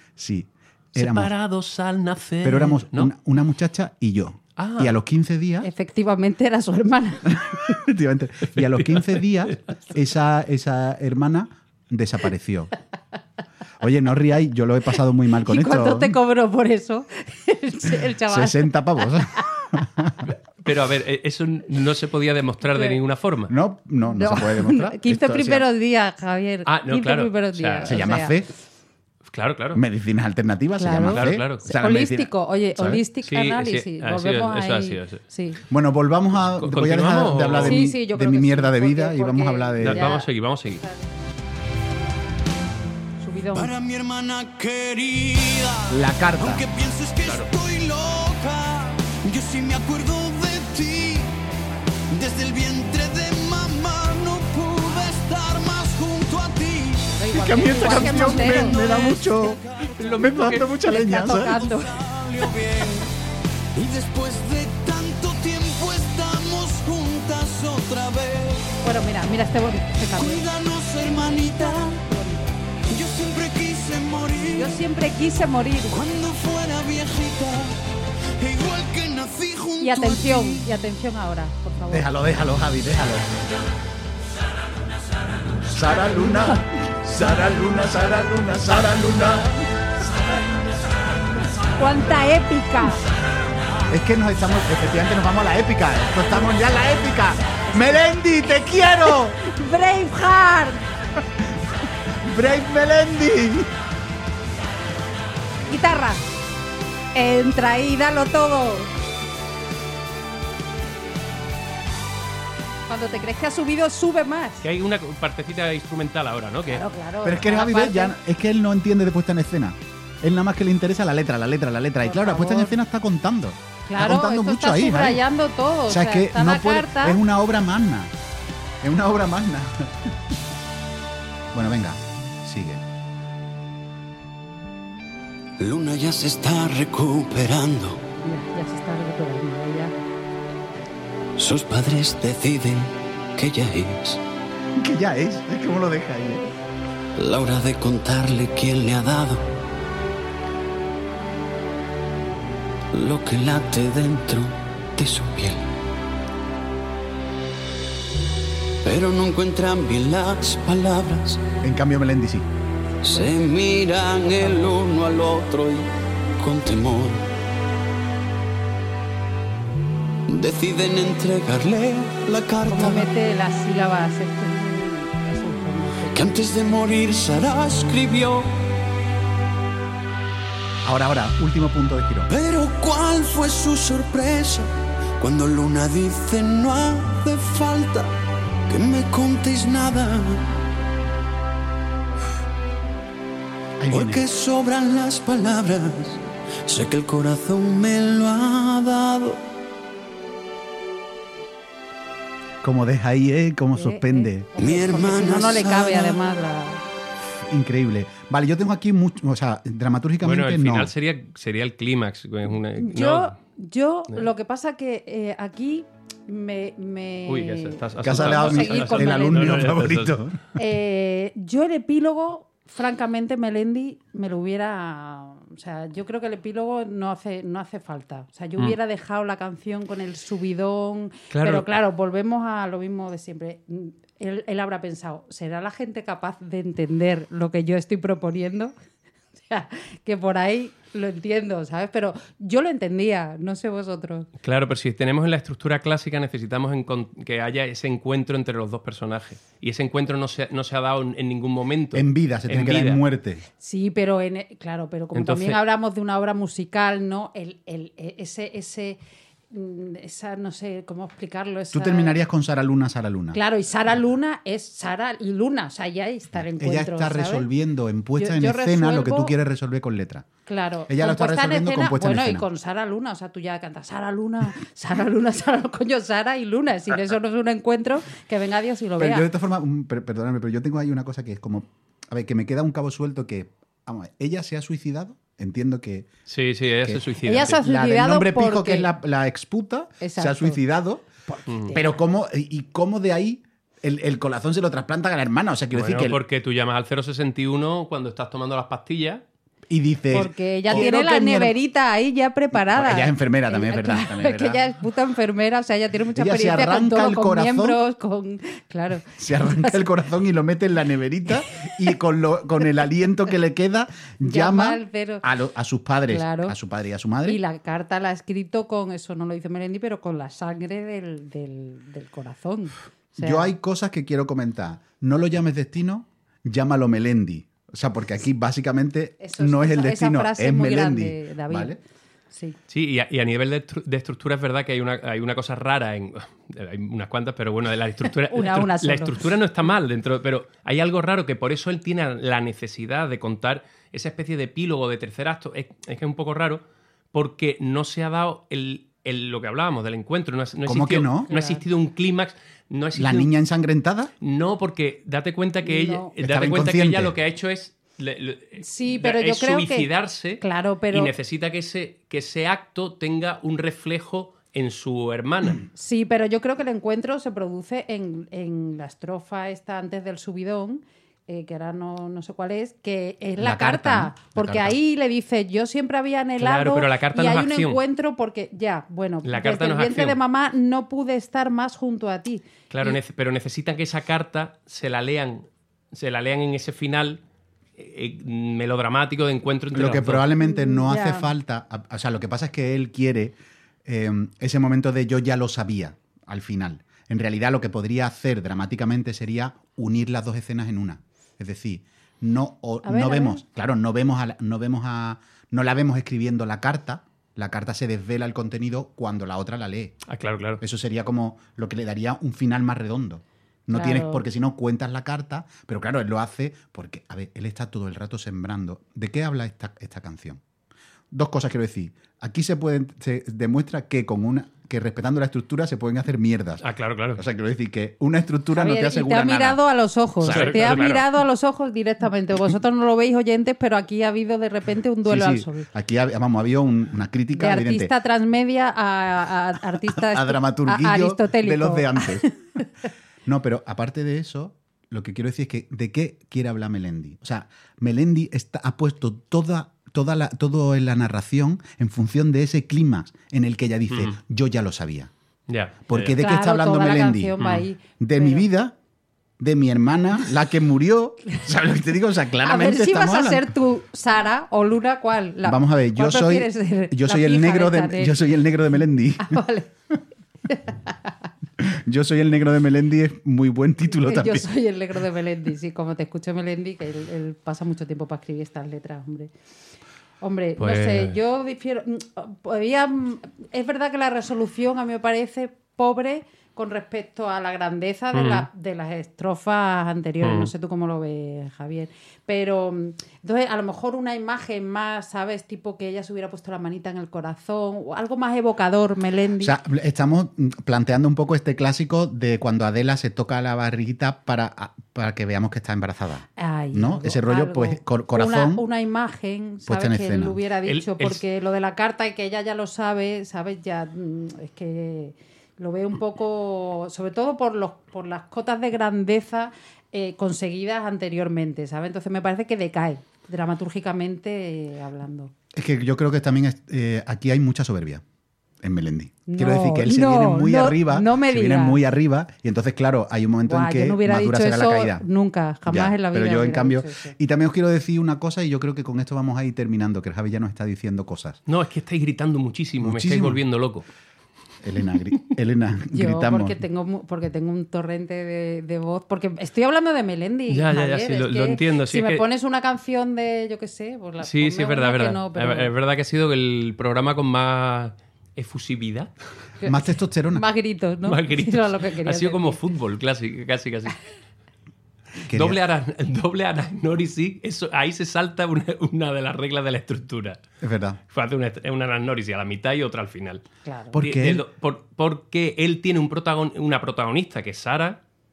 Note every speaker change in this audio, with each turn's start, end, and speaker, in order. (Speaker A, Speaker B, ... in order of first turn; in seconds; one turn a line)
Speaker A: 0.2-1.3
Speaker B: 0.9-3.1
Speaker A: 2.4-5.7
Speaker B: 4.6-4.9
Speaker C: 5.6-7.5
Speaker A: 7.3-12.7
Speaker B: 8.8-9.5
Speaker A: 13.8-16.1
Speaker C: 15.4-19.4
Speaker A: 18.3-20.2
Speaker B: 20.6-23.5
Speaker C: 22.7-23.0
Speaker A: 23.5-25.6
Speaker C: 24.1-28.4
Speaker B: 26.6-28.0
Speaker A: 27.9-28.5
Speaker B: 29.3-29.8
Speaker A: 29.7-33.0
Speaker C: 30.8-35.6
Speaker B: 31.1-31.7
Speaker B: 33.2-35.2
Speaker A: 35.7-40.2
Speaker B: 36.6-37.8
Speaker C: 37.6-41.1
Speaker B: 39.8-40.8
Speaker C: 43.2-43.7
Speaker D: 43.5-51.4
Speaker A: 45.9-46.6
Speaker B: 47.2-47.5
Speaker C: 51.5-52.0
Speaker D: 52.1-63.1
Speaker C: 57.1-59.2
Speaker A: 57.3-61.6
Speaker B: 60.2-60.5
Speaker C: 60.2-61.9
Speaker D: 63.7-68.7
Speaker C: 68.8-70.4
Speaker D: 70.2-72.0
Speaker C: 71.0-72.6
Speaker D: 72.9-74.8
Speaker C: 74.5-76.0
Speaker D: 75.9-77.8
Speaker D: 78.4-80.7
Speaker C: 79.8-82.1
Speaker A: 81.9-83.3
Speaker A: 85.6-90.8
Speaker C: 91.8-93.1
Speaker A: 93.9-99.4
Speaker C: 97.7-100.8
Speaker A: 102.2-103.7
Speaker C: 105.7-106.3
Speaker C: 107.1-108.9
Speaker C: 112.9-114.6
Speaker B: 114.6-116.8
Speaker C: 116.7-118.1
Speaker A: 117.2-125.2
Speaker C: 122.0-122.8
Speaker C: 123.9-127.2
Speaker A: 125.9-128.1
Speaker A: 128.8-130.1
Speaker A: 131.5-132.8
Speaker D: 135.6-138.0
Speaker C: 138.2-139.9
Speaker D: 141.4-144.2
Speaker A: 144.8-146.4
Speaker D: 147.2-149.4
Speaker D: 152.9-155.7
Speaker D: 158.8-161.4
Speaker A: 161.6-162.4
Speaker D: 163.0-167.3
Speaker D: 170.3-173.1
Speaker C: 172.7-176.4
Speaker D: 176.1-178.6
Speaker A: 180.8-182.3
Speaker D: 182.3-188.1
Speaker D: 188.7-190.5
Speaker A: 193.8-194.2
Speaker D: 193.9-199.4
Speaker A: 202.6-204.5
Speaker C: 203.7-206.8
Speaker D: 204.6-206.2
Speaker A: 207.3-210.9
Speaker B: 210.2-213.3
Speaker C: 212.8-219.7
Speaker B: 217.3-220.2
Speaker A: 218.0-220.4
Speaker C: 220.5-238.7
Speaker B: 231.3-231.7
Speaker C: 239.5-244.3
Speaker B: 244.4-253.0
Speaker A: 251.9-253.4
Speaker C: 253.6-259.0
Speaker B: 255.1-255.6
Speaker C: 259.5-262.2
Speaker A: 261.7-263.4
Speaker C: 263.3-267.5
Speaker A: 266.5-270.3
Speaker C: 268.2-269.3
Speaker C: 270.4-279.2
Speaker A: 270.9-272.4
Speaker A: 279.0-286.1
Speaker B: 286.3-287.6
Speaker A: 286.8-291.1
Speaker C: 287.2-288.9
Speaker C: 290.0-290.6
Speaker C: 291.3-292.0
Speaker A: 291.7-296.2
Speaker B: 295.7-299.2
Speaker A: 299.7-301.5
Speaker C: 300.1-309.8
Speaker A: 302.5-304.6
Speaker A: 306.1-307.8
Speaker A: 309.1-317.4
Speaker C: 314.2-315.2
Speaker C: 316.1-316.5
Speaker C: 317.2-323.5
Speaker A: 323.1-331.8
Speaker C: 329.2-331.8
Speaker C: 332.3-332.6
Speaker B: 332.7-346.6
Speaker C: 338.3-339.3
Speaker B: 347.1-353.3
Speaker A: 350.6-351.3
Speaker C: 351.3-351.6
Speaker A: 352.9-354.1
Speaker B: 354.2-365.6
Speaker C: 355.6-356.1
Speaker A: 356.2-357.1
Speaker C: 358.6-359.9
Speaker C: 360.4-361.1
Speaker C: 365.7-383.0
Speaker A: 373.4-374.8
Speaker B: 376.4-377.8
Speaker B: 379.2-380.1
Speaker B: 382.7-387.2
Speaker B: 387.8-390.3
Speaker A: 389.7-409.9
Speaker C: 390.4-391.3
Speaker C: 402.8-403.4
Speaker B: 410.1-410.6
Speaker A: 410.6-420.4
Speaker C: 413.7-414.2
Speaker A: 421.1-426.6
Speaker B: 426.6-427.2
Speaker A: 427.1-429.6
Speaker C: 428.5-435.7
Speaker A: 430.2-430.9
Speaker B: 430.3-431.1
Speaker A: 435.0-437.9
Speaker C: 437.3-442.6
Speaker A: 439.8-442.3
Speaker A: 443.2-455.1
Speaker B: 453.9-454.2
Speaker B: 455.5-456.2
Speaker A: 455.9-457.4
Speaker C: 456.1-458.4
Speaker B: 457.4-457.6
Speaker A: 458.0-458.7
Speaker A: 459.4-463.5
Speaker C: 462.4-468.3
Speaker A: 465.4-469.4
Speaker C: 469.2-469.7
Speaker C: 470.5-471.1
Speaker A: 471.6-474.4
Speaker C: 474.0-479.3
Speaker C: 480.2-499.6
Speaker B: 480.6-481.2
Speaker B: 488.1-488.5
Speaker B: 490.2-490.5
Speaker A: 499.4-508.6
Speaker C: 506.4-525.3
Speaker A: 509.6-510.4
Speaker B: 510.6-511.2
Speaker A: 525.5-528.0
Speaker A: 528.6-535.0
Speaker C: 529.3-531.8
Speaker C: 533.5-537.1
Speaker A: 535.7-541.4
Speaker B: 541.5-543.9
Speaker A: 542.8-543.4
Speaker A: 544.6-546.6
Speaker C: 545.9-555.7
Speaker B: 550.5-552.2
Speaker B: 554.2-559.1
Speaker C: 559.6-562.6
Speaker A: 559.6-560.4
Speaker B: 561.0-564.0
Speaker A: 565.3-565.6
Speaker B: 565.3-570.4
Speaker A: 570.6-571.0
Speaker B: 571.1-573.4
Speaker C: 573.6-574.0
Speaker A: 573.9-574.4
Speaker B: 574.0-578.0